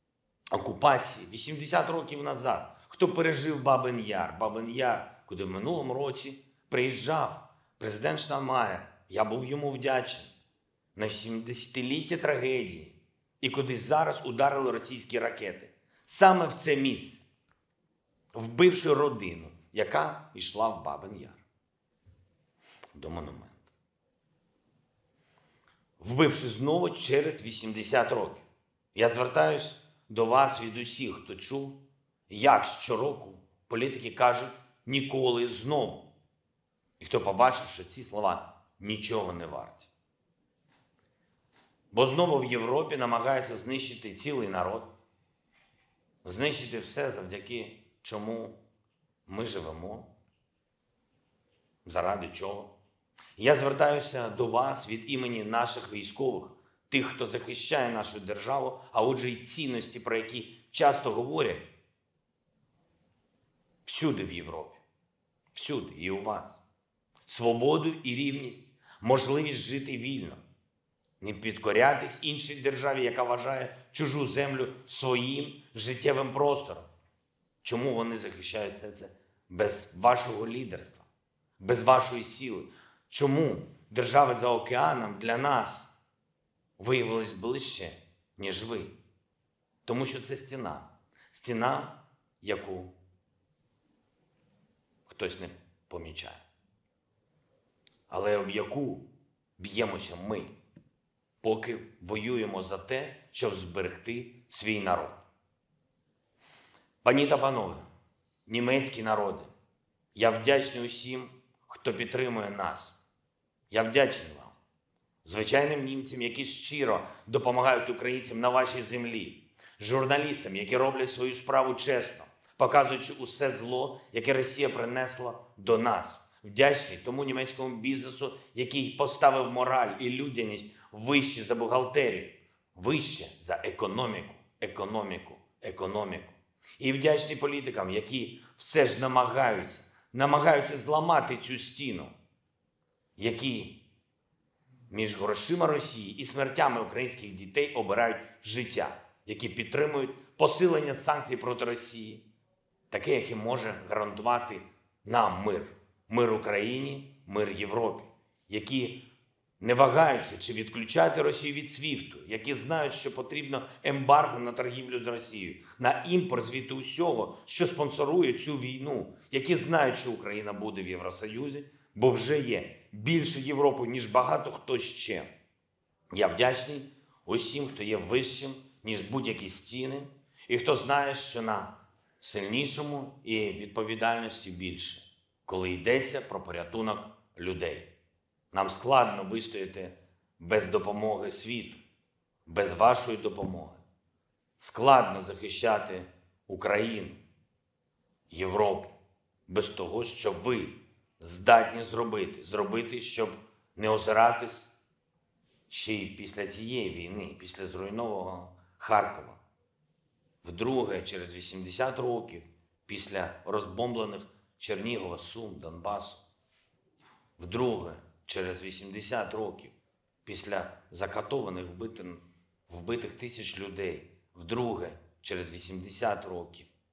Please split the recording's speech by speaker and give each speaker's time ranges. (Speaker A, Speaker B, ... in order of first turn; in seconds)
Speaker A: 0.5-10.3, 10.9-17.2, 18.3-21.4, 22.9-23.7, 26.0-31.8, 32.3-36.1, 37.0-39.9, 41.9-44.9, 46.2-48.6, 49.2-50.1, 51.8-52.7, 53.4-61.7, 63.9-64.8, 65.5-66.6, 67.3-70.4, 71.2-76.9, 77.6-81.0, 81.6-85.9, 86.8-88.9, 89.8-92.9, 95.0-96.4, 98.1-99.0, 99.6-100.5, 101.4-105.2, 107.0-107.8, 108.5-109.5, 110.1-113.0, 113.7-114.6, 115.2-142.1, 143.2-143.8, 144.9-152.2, 152.9-159.0, 159.6-175.3, 176.1-187.9, 188.5-191.8, 192.4-193.8, 194.6-197.2, 198.3-198.9, 199.5-204.7, 205.7-209.4, 210.4-216.2, 217.4-226.7